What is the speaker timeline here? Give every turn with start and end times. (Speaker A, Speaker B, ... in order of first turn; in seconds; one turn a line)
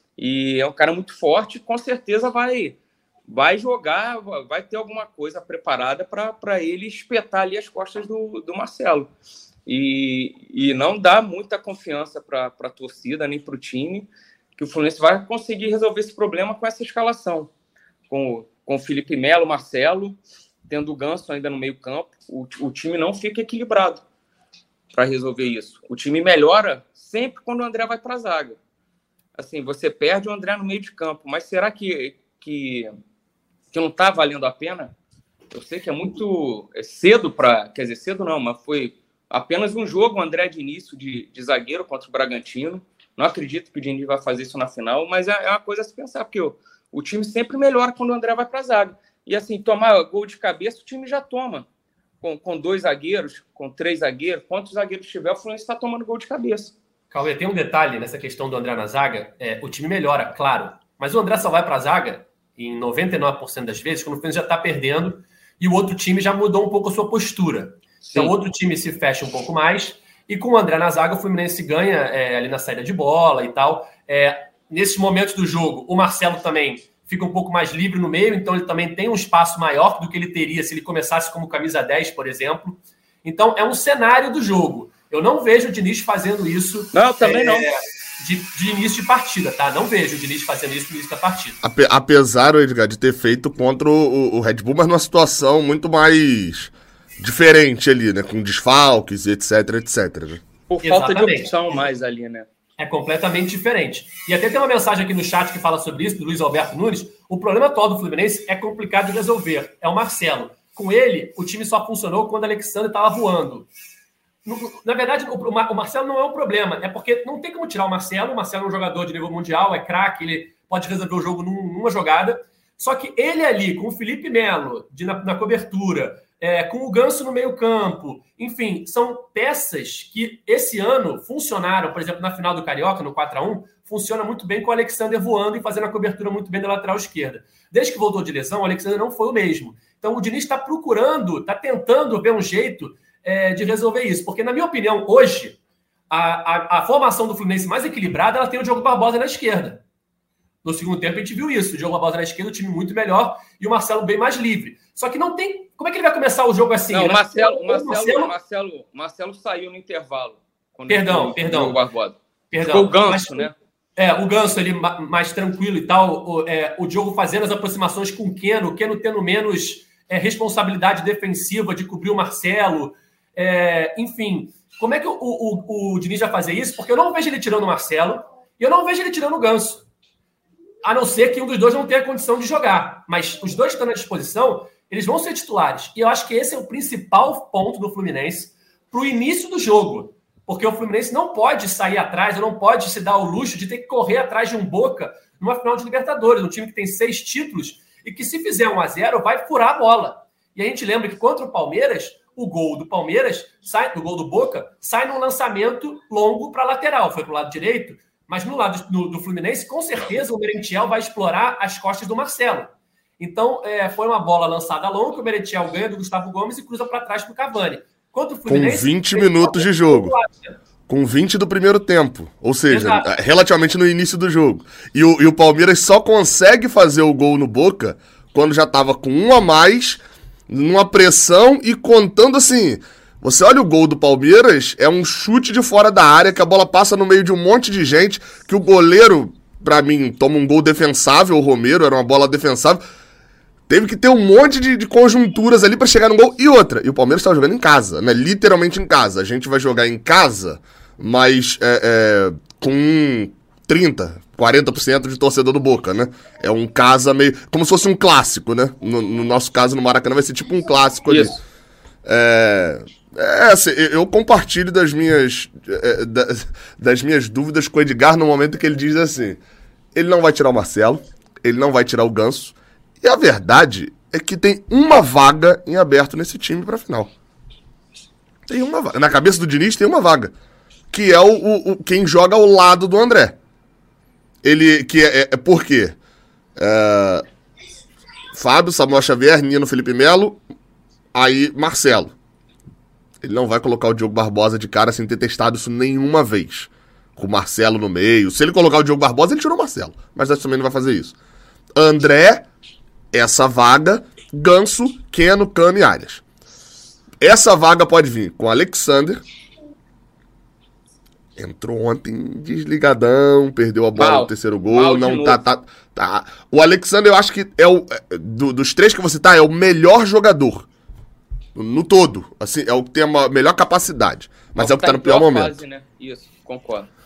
Speaker A: 0.2-9.1
Speaker A: 9.7-17.5
Speaker A: 18.1-24.0
Speaker A: 24.9-28.6
Speaker A: 29.4-32.9
Speaker A: 33.7-34.9
Speaker A: 35.5-51.7
Speaker A: 52.2-56.7
Speaker B: 57.1-91.6
Speaker A: 68.0-68.3
Speaker A: 86.9-87.7
Speaker C: 91.6-100.4
Speaker A: 100.7-102.5
Speaker B: 100.8-101.8
Speaker B: 102.8-113.7
Speaker B: 114.4-145.6
Speaker B: 146.1-149.8
Speaker B: 150.6-158.3
Speaker A: 156.9-163.5
Speaker B: 160.9-161.8
Speaker B: 162.5-179.8
Speaker B: 180.8-220.6
Speaker C: 218.5-220.1
Speaker C: 220.9-242.8
Speaker B: 222.7-223.1
Speaker C: 243.7-261.4
Speaker A: 261.1-261.4
Speaker C: 262.0-269.4
Speaker C: 269.9-277.1
Speaker C: 278.5-280.3
Speaker C: 280.9-283.4
Speaker C: 284.4-286.0
Speaker C: 286.6-287.2
Speaker C: 288.3-290.4
Speaker C: 291.1-292.1
Speaker C: 293.2-301.1
Speaker C: 301.8-302.4
Speaker C: 303.1-306.2
Speaker C: 307.2-309.2
Speaker C: 311.4-320.7
Speaker A: 313.9-315.4
Speaker C: 321.5-325.6
Speaker A: 324.6-326.9